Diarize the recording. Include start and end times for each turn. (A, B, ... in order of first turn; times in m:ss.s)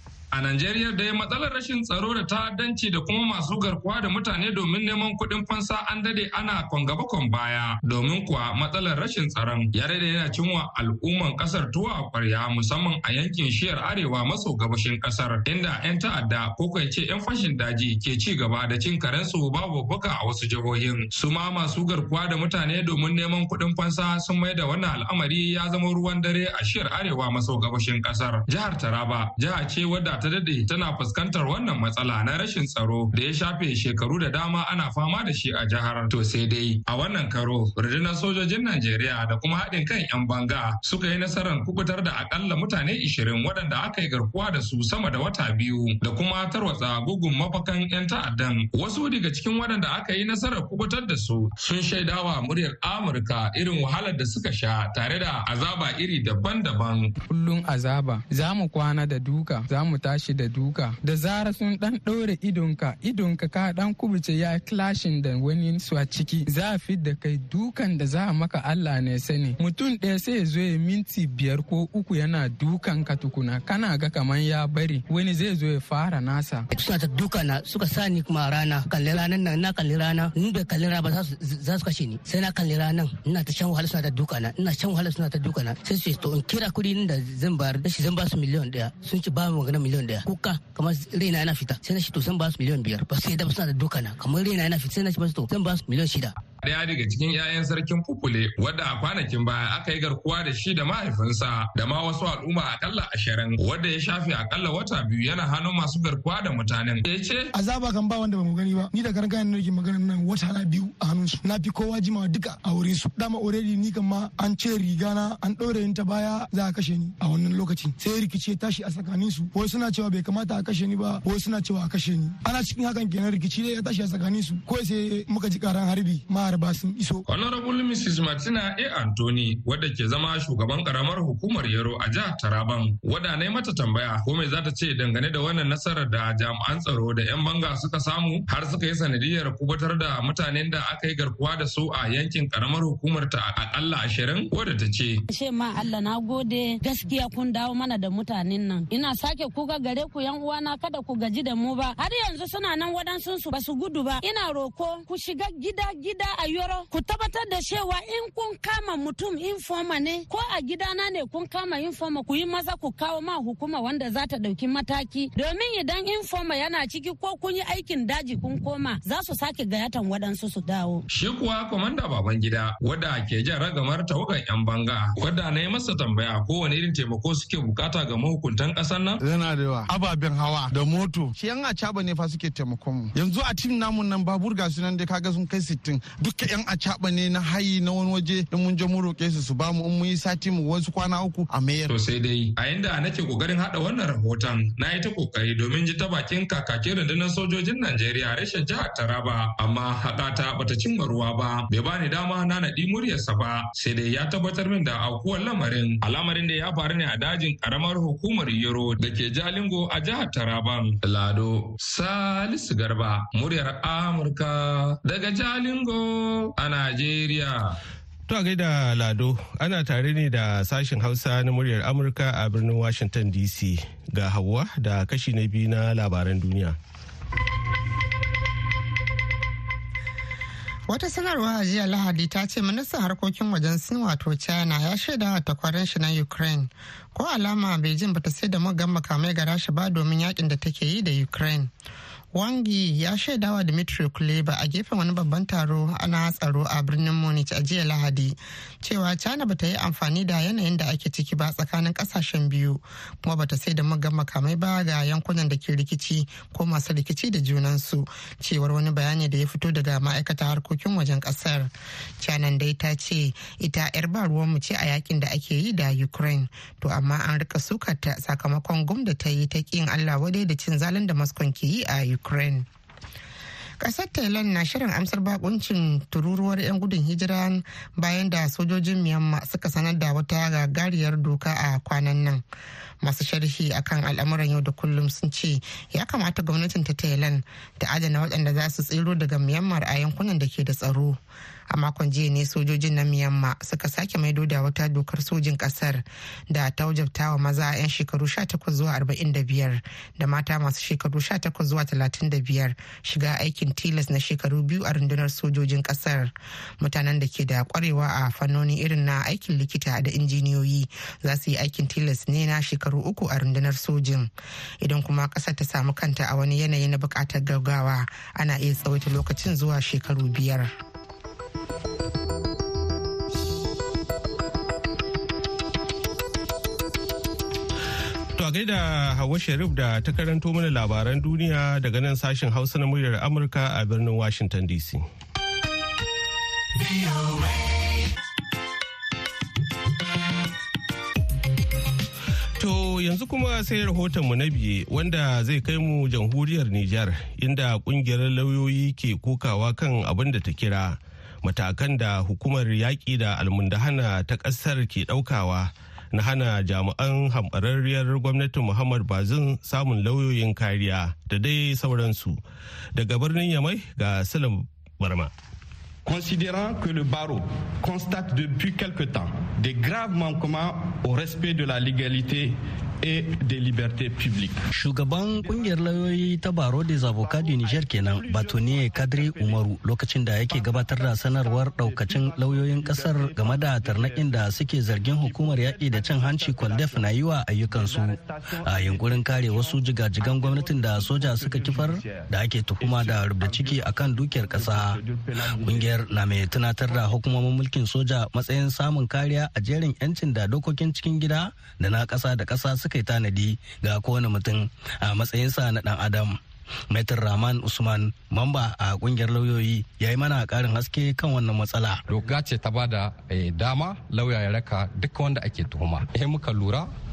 0:00.3-0:57.1 A
0:57.3-1:16.7 B
1:16.7-1:36.3 C
1:36.6-1:47.5 A
1:47.5-2:07.2 D
2:07.3-2:25.2 A
2:25.3-2:51.0 E
2:51.1-2:59.2 A
2:59.2-3:11.9 F
3:11.9-3:37.8 A
3:38.3-3:46.8 G
3:50.9-4:01.7 H
4:02.3-4:32.6 H
4:33.8-4:42.4 H
4:43.0-4:51.2 H
4:51.7-5:20.7 H
5:28.4-5:35.0 G
5:42.6-6:02.4 G
6:02.9-6:05.3 G
6:06.0-6:14.6 I
6:14.7-6:46.4 J
6:46.9-6:52.0 J
6:52.1-6:56.9 K